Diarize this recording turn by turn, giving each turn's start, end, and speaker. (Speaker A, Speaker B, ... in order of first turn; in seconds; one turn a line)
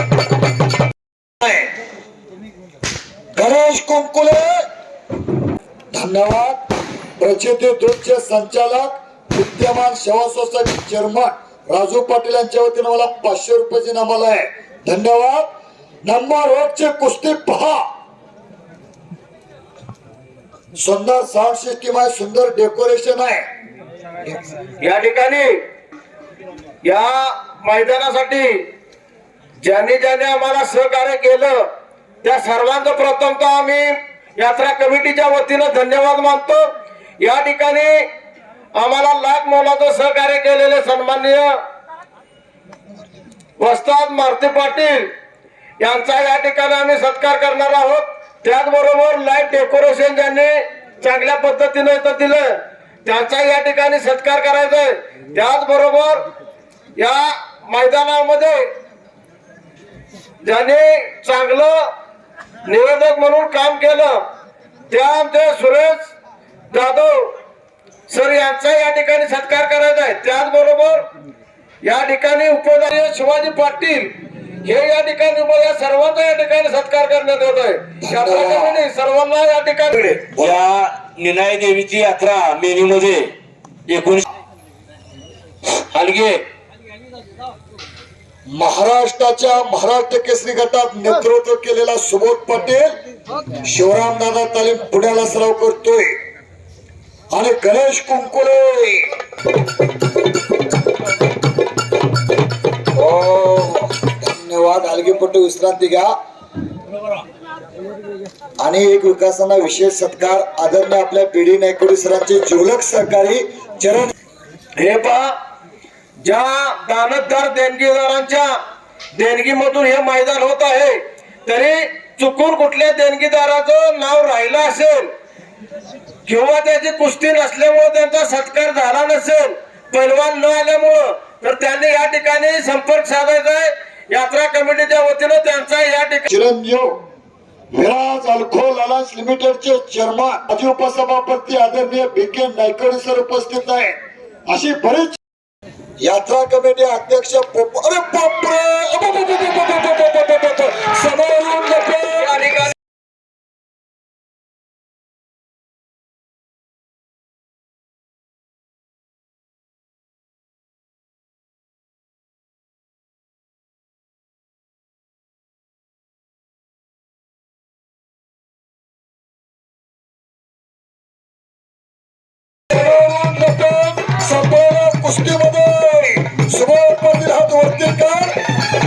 Speaker A: 1.4-1.7
Speaker A: 3.4-4.6
Speaker A: 5.9-6.6
Speaker A: 7.2-15.5
Speaker A: 16.1-17.8
Speaker A: 20.8-23.5
Speaker B: 24.8-25.5
Speaker B: 26.8-28.7
Speaker B: 29.6-31.6
Speaker B: 32.2-36.6
Speaker B: 37.2-38.0
Speaker B: 38.8-41.5
Speaker B: 43.6-45.1
Speaker B: 45.8-56.2
Speaker B: 57.0-58.7
Speaker B: 60.4-61.9
Speaker B: 62.7-64.3
Speaker B: 64.9-66.1
Speaker B: 66.7-67.3
Speaker B: 68.1-71.1
Speaker B: 71.8-74.1
Speaker B: 74.6-80.3
Speaker A: 78.0-78.8
Speaker C: 80.3-83.3
Speaker C: 83.9-84.3
Speaker C: 85.7-86.4
Speaker A: 88.5-92.9
Speaker A: 93.6-96.2
Speaker A: 97.3-99.1
Speaker A: 103.0-106.1
Speaker A: 108.6-114.1
Speaker B: 114.8-115.3
Speaker B: 116.2-118.5
Speaker B: 119.1-125.1
Speaker B: 126.3-136.3
Speaker A: 136.3-137.0
Speaker A: 137.7-145.2
Speaker A: 146.0-152.2
Speaker B: 152.1-152.7
Speaker A: 172.7-178.3